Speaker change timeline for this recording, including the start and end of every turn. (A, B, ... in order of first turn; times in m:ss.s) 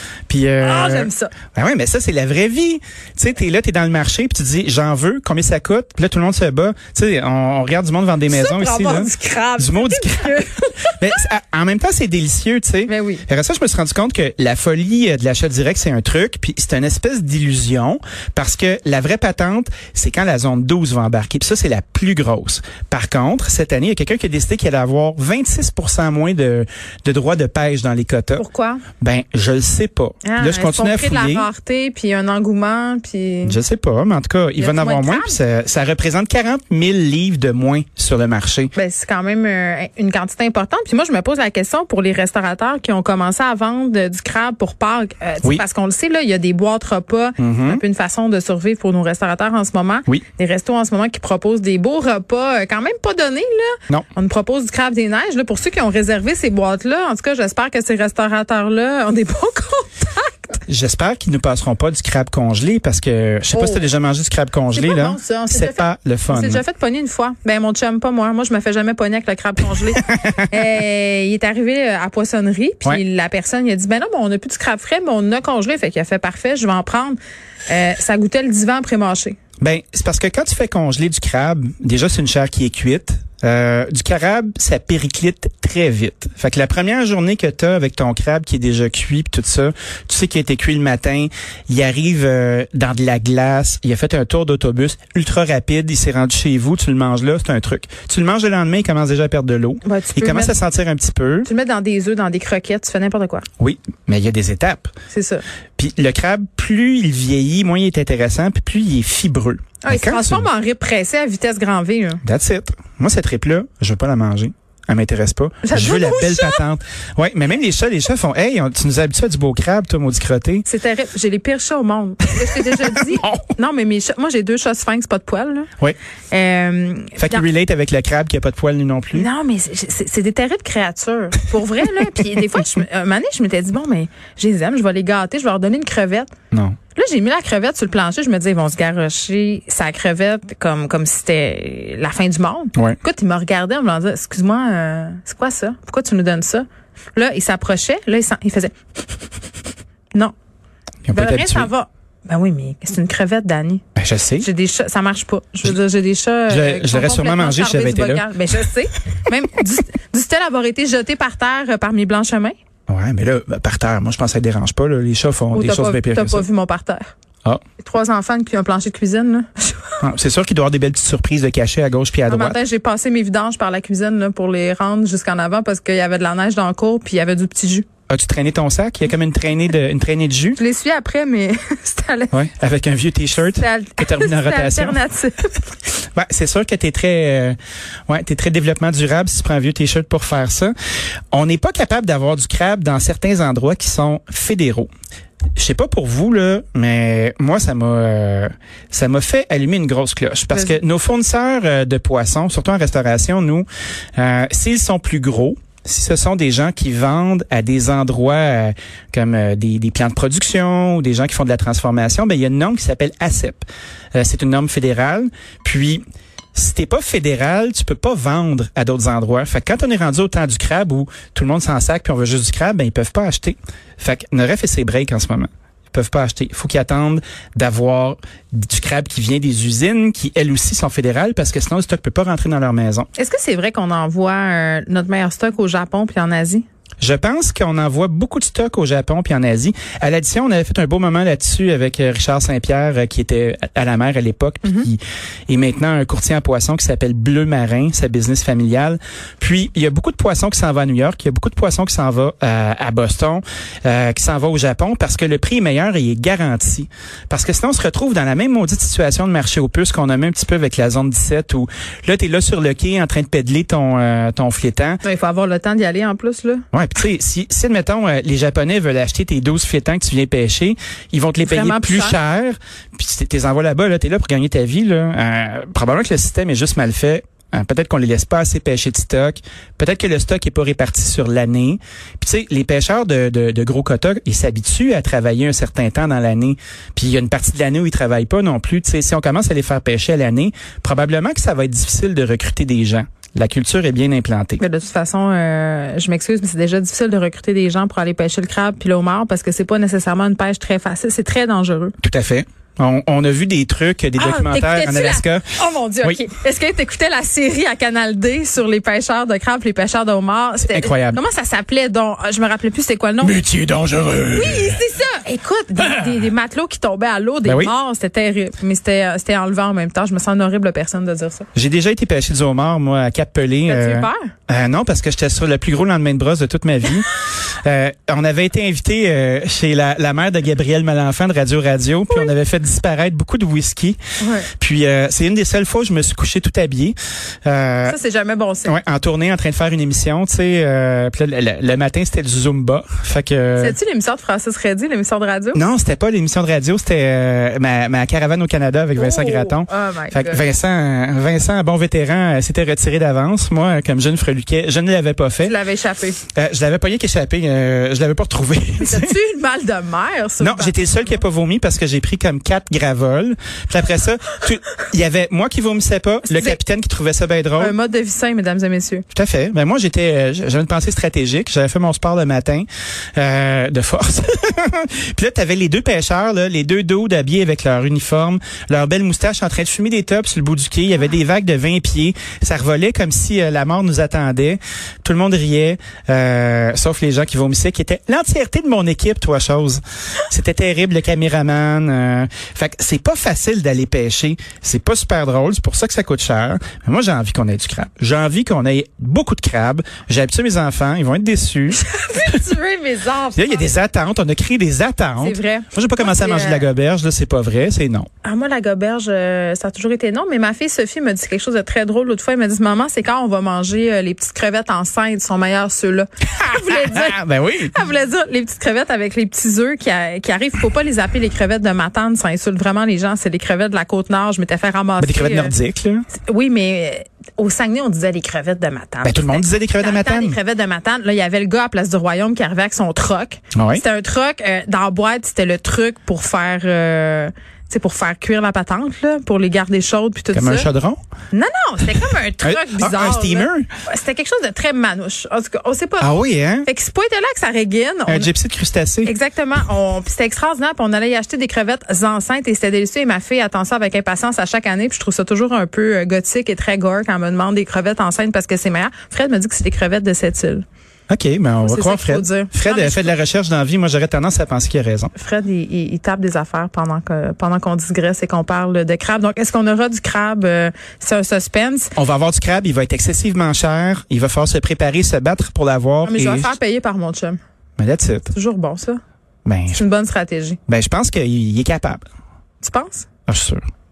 0:00.3-0:10.4 A
0:00.6-0:01.3 B
0:08.3-0:11.0 B
0:11.0-0:28.4 A
0:12.9-0:13.2 B
0:28.4-0:28.8 B
0:29.0-0:31.5 A
0:30.2-0:33.6 B
0:33.4-0:38.7 A
0:34.6-0:35.4 B
0:38.7-1:00.6 B
0:47.4-0:47.8 A
1:00.7-1:06.6 A
1:03.5-1:03.9 B
1:04.7-1:19.4 B
1:10.0-1:10.5 A
1:19.6-1:41.5 A
1:39.8-1:40.6 B
1:41.4-1:43.4 B
1:43.6-1:44.9 A
1:45.1-1:45.4 B
1:45.8-1:50.5 A
1:49.8-1:52.2 B
1:52.2-2:00.6 A
1:55.6-1:56.6 B
2:00.6-2:05.7 B
2:06.3-2:07.4 B
2:07.2-2:09.3 A
2:09.1-2:16.3 B
2:16.5-2:16.8 A
2:16.9-2:28.7 B
2:31.0-2:31.7 A
2:31.1-2:33.8 B
2:34.0-2:34.4 A
2:34.4-2:42.5 B
2:36.5-2:38.2 A
2:42.9-2:46.4 A
2:45.5-2:47.1 B
2:47.8-2:50.0 B
2:50.0-2:52.6 A
2:52.3-2:57.8 B
2:58.1-3:00.6 A
3:00.6-3:02.3 B
3:02.3-3:05.0 A
3:03.5-3:05.7 B
3:06.1-3:07.6 A
3:08.1-3:10.7 A
3:11.3-3:14.9 A
3:15.6-3:23.6 A
3:20.5-3:20.8 B
3:24.2-3:36.0 A
3:36.5-3:53.1 A
3:53.2-3:56.6 B
3:57.0-4:25.0 A
4:25.0-4:26.6 B
4:26.7-4:54.6 A
4:31.4-4:32.2 B
4:54.6-5:01.9 B
5:02.0-5:05.5 A
5:04.2-5:13.4 B
5:10.6-5:11.2 A
5:13.2-5:14.8 A
5:14.3-5:21.5 B
5:17.4-5:17.7 A
5:21.5-5:34.0 A
5:23.7-5:24.3 B
5:34.2-5:34.5 B
5:34.6-5:38.0 A
5:37.8-5:38.8 B
5:38.6-5:43.8 A
5:43.6-5:45.6 B
5:45.5-5:55.6 A
5:49.0-5:50.4 B
5:55.4-5:56.2 B
5:56.3-5:59.2 A
5:58.8-6:01.1 B
6:00.4-6:07.7 A
6:06.3-6:06.6 B
6:07.6-6:09.0 B
6:09.1-6:41.8 A
6:41.7-6:43.7 B
6:43.3-6:48.1 A
6:45.2-6:46.6 B
6:48.2-6:57.2 B
6:56.4-6:57.7 A
6:57.7-7:05.5 B
7:05.0-7:06.0 A
7:06.1-7:20.7 B
7:09.0-7:10.4 A
7:13.5-7:13.8 A
7:20.3-7:21.0 A
7:21.3-7:28.3 B
7:22.4-7:23.7 A
7:26.0-7:26.7 A
7:28.1-7:29.1 A
7:29.0-7:40.6 B
7:41.1-7:45.1 A
7:41.6-7:43.2 B
7:45.2-7:51.9 B
7:52.0-7:56.5 A
7:56.0-7:57.4 B
7:57.8-7:58.3 A
7:58.3-7:59.0 B
7:59.4-7:59.8 A
7:59.7-8:00.6 B
8:00.7-8:02.0 A
8:02.6-8:03.1 B
8:03.3-8:03.6 A